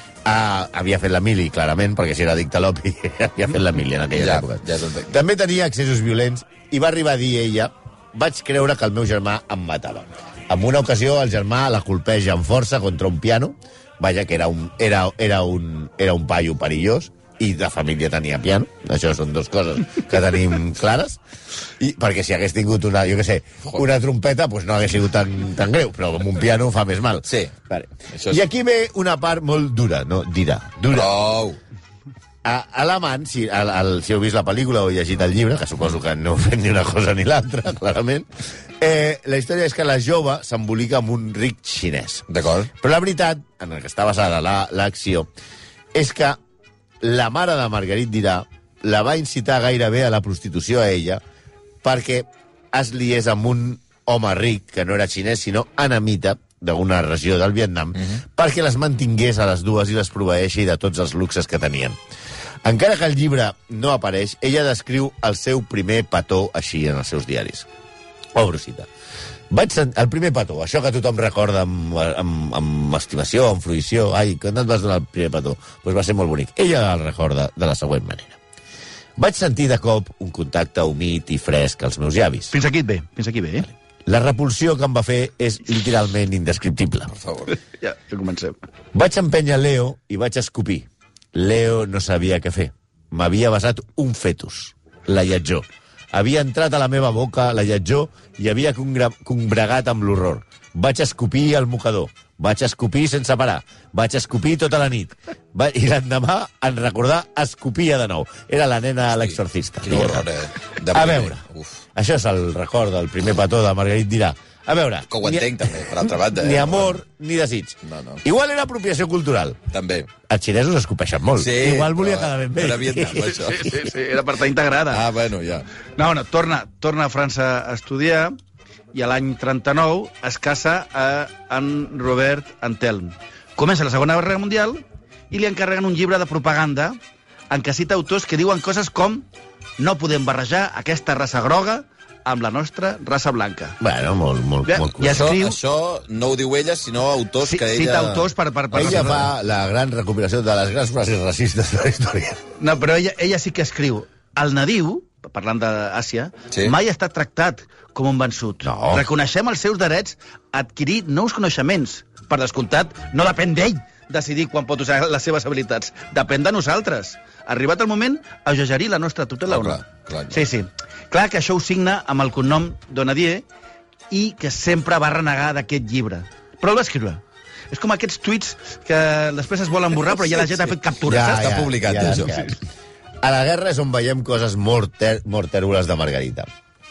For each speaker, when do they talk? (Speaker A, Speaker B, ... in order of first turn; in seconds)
Speaker A: 0.2-21.2, 21.8-31.1, 32.4-38.3, 38.8-45.3, 45.9-46.4, 47.0-51.2, 51.8-62.0, 62.6-67.7, 68.3-68.9, 69.5-78.4, 79.2-82.5, 84.1-87.1, 88.9-110.3, 110.9-111.4, 112.0-119.6, 120.3-123.5, 143.8-145.3, 148.7-152.4, 158.6-159.1, 181.1-182.6, 183.2-186.5
Speaker B: 4.2-5.1, 27.3-27.5, 28.1-28.4, 30.9-31.6, 42.3-42.7, 87.2-87.5, 109.2-111.8, 115.1-117.0, 117.8-118.2, 119.7-120.1, 121.4-123.8, 124.9-125.7, 145.1-149.1, 169.5-170.4, 181.1-182.4
Speaker C: 82.5-83.7, 87.8-88.6, 123.3-125.0, 126.0-128.3, 128.9-137.0, 137.5-139.3, 139.8-143.8, 144.7-145.6, 147.4-149.3, 152.6-173.5, 174.1-181.6